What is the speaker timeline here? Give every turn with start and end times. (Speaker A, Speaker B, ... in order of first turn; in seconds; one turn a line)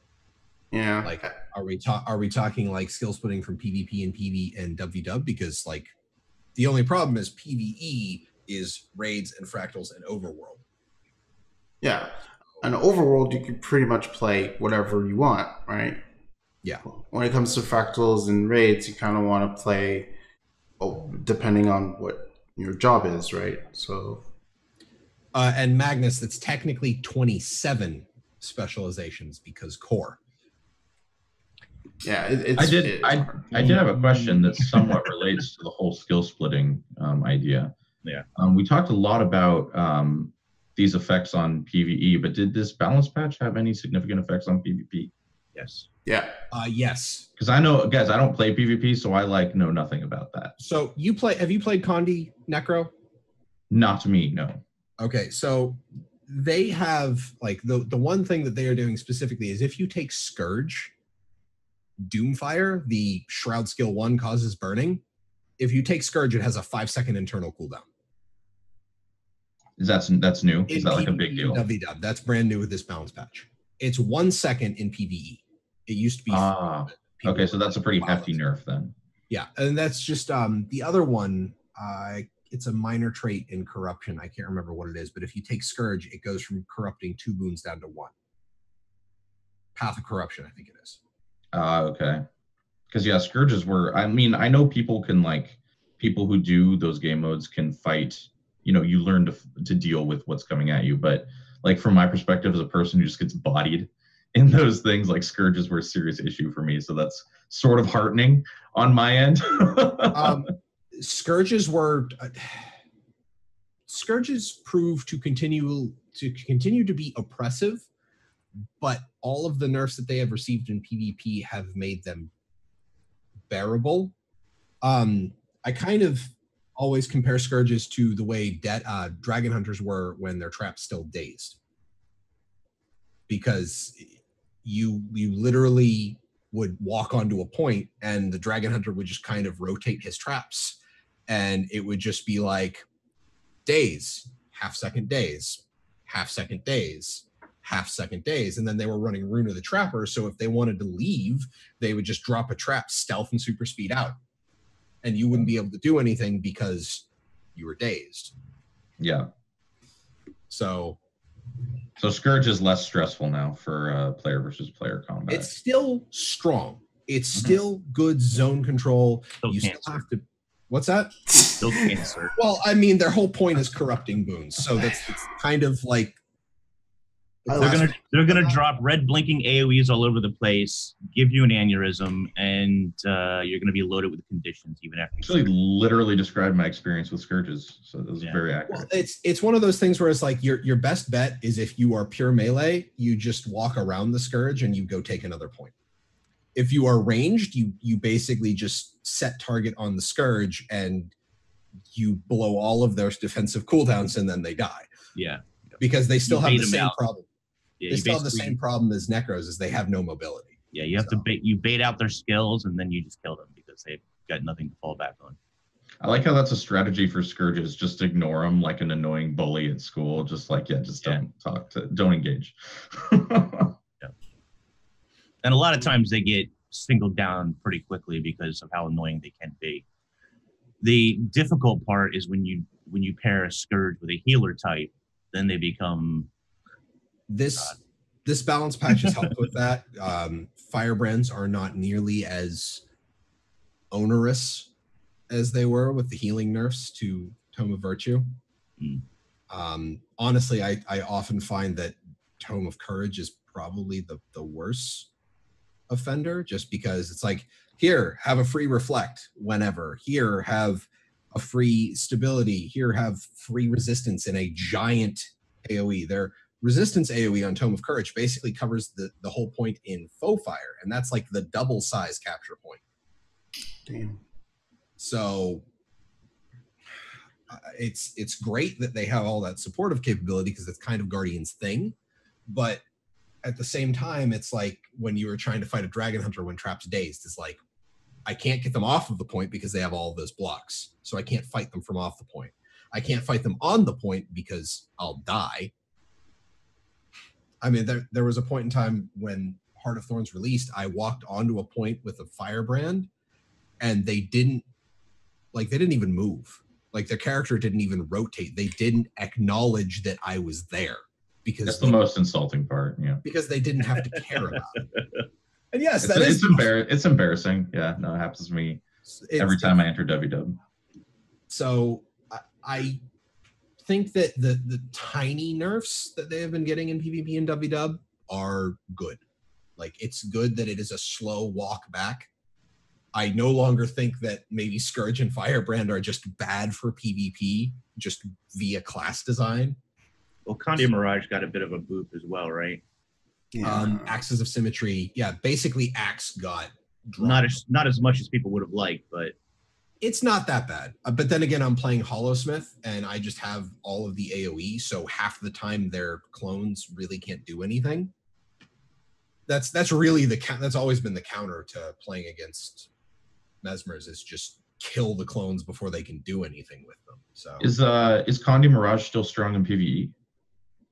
Speaker A: 0.7-1.4
Speaker B: 1.0-5.9
Speaker B: 6.5-10.6
Speaker A: 11.8-16.0
Speaker A: 16.9-20.1
Speaker A: 20.8-24.3
Speaker B: 25.3-30.2
Speaker A: 32.0-33.8
Speaker C: 32.6-37.7
Speaker D: 33.5-34.9
Speaker C: 38.4-45.1
Speaker D: 45.5-45.9
Speaker A: 46.1-46.4
Speaker B: 46.5-47.3
Speaker C: 47.4-50.5
Speaker B: 50.6-52.9
Speaker C: 53.7-54.6
Speaker B: 55.0-60.9
Speaker B: 62.0-65.0
Speaker B: 65.6-67.9
Speaker C: 69.8-71.6
Speaker B: 70.7-78.4
Speaker C: 76.3-78.9
Speaker B: 79.3-88.1
Speaker B: 89.8-91.0
Speaker C: 91.5-92.2
Speaker C: 92.9-110.5
Speaker B: 110.1-112.8
Speaker B: 113.9-117.8
Speaker B: 118.8-122.3
Speaker B: 123.5-124.1
Speaker B: 124.8-131.6
Speaker B: 133.3-142.8
Speaker B: 143.7-154.2
Speaker B: 155.0-158.3
Speaker C: 159.0-159.3
Speaker B: 160.5-161.0
Speaker C: 162.0-165.5
Speaker B: 165.3-171.2
Speaker D: 169.4-170.0
Speaker A: 171.3-171.6
Speaker D: 171.6-172.3
Speaker B: 172.3-176.2
Speaker B: 177.5-178.6
Speaker A: 177.5-178.0
Speaker D: 177.6-185.5
Speaker C: 185.2-188.9
Speaker B: 188.7-195.7
Speaker B: 196.6-201.1
Speaker B: 201.9-204.9
Speaker D: 205.2-207.0
Speaker B: 205.8-207.3
Speaker D: 207.8-208.6
Speaker B: 207.9-211.2
Speaker D: 210.7-215.4
Speaker C: 216.0-223.8
Speaker D: 225.4-229.8
Speaker D: 230.8-236.3
Speaker B: 237.3-242.8
Speaker B: 243.9-244.7
Speaker B: 245.3-248.3
Speaker D: 248.8-249.0
Speaker B: 249.5-255.1
Speaker B: 255.9-272.8
Speaker A: 273.9-274.2
Speaker B: 275.0-275.6
Speaker B: 277.5-281.9
Speaker B: 282.5-282.8
Speaker B: 283.4-287.6
Speaker B: 288.2-295.7
Speaker B: 297.6-303.1
Speaker B: 303.8-304.7
Speaker B: 305.5-312.0
Speaker C: 311.7-313.2
Speaker B: 313.2-314.8
Speaker D: 314.0-315.3
Speaker B: 315.7-316.7
Speaker C: 316.0-318.8
Speaker B: 319.1-319.8
Speaker C: 319.4-320.6
Speaker B: 321.5-323.0
Speaker B: 323.8-329.2
Speaker B: 329.8-332.3
Speaker B: 333.1-339.8
Speaker D: 340.5-342.8
Speaker A: 343.5-344.2
Speaker B: 343.6-347.6
Speaker D: 347.2-349.4
Speaker B: 350.0-358.1
Speaker B: 359.5-362.9
Speaker B: 363.6-367.7
Speaker C: 367.6-370.1